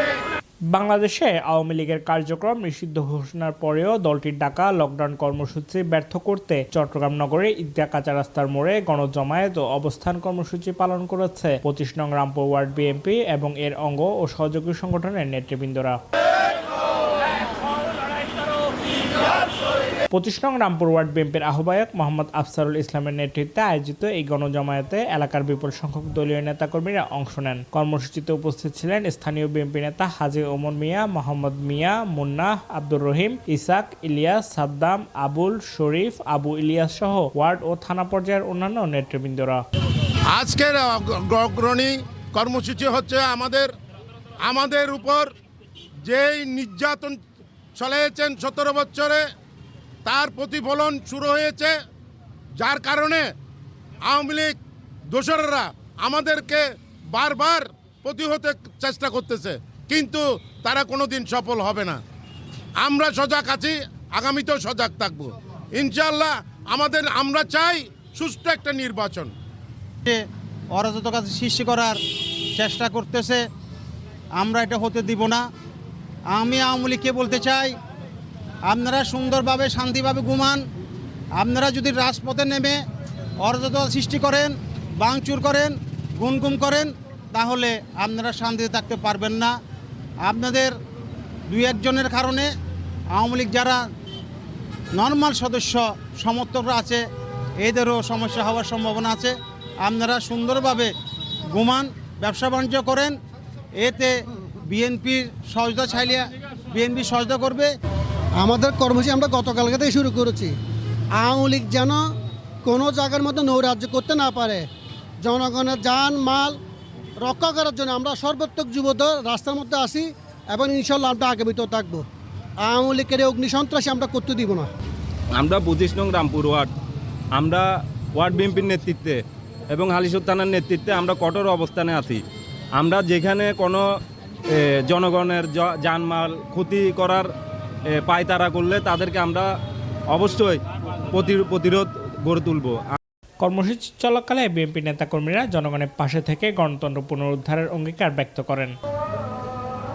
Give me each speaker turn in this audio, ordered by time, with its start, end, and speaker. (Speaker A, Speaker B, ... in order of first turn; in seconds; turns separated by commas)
Speaker A: 0.7-16.0, Speaker A: 20.1-39.6, Speaker B: 40.3-43.7, Speaker B: 44.4-45.3, Speaker B: 46.1-47.2, Speaker B: 47.8-49.2, Speaker B: 50.0-51.7, Speaker B: 52.6-53.3, Speaker B: 54.0-54.6, Speaker B: 55.1-56.6, Speaker B: 57.1-62.0, Speaker B: 62.8-69.3, Speaker C: 70.7-72.0, Speaker C: 72.6-73.4, Speaker C: 74.3-75.5, Speaker C: 76.3-77.8, Speaker C: 78.7-80.6, Speaker C: 81.4-82.8, Speaker C: 83.4-89.5, Speaker C: 90.2-90.7, Speaker C: 91.5-92.5, Speaker C: 93.1-93.8, Speaker C: 94.9-97.0, Speaker C: 97.6-100.9, Speaker C: 101.5-103.2, Speaker C: 103.8-107.7, Speaker D: 108.4-110.6, Speaker D: 111.2-112.1, Speaker D: 112.6-114.7, Speaker D: 115.2-116.6, Speaker D: 117.2-122.0, Speaker D: 122.6-124.7, Speaker E: 125.3-126.7, Speaker E: 127.3-132.2, Speaker E: 132.8-133.8, Speaker E: 134.5-137.3, Speaker E: 138.0-139.5, Speaker E: 140.1-143.0, Speaker A: 143.4-148.7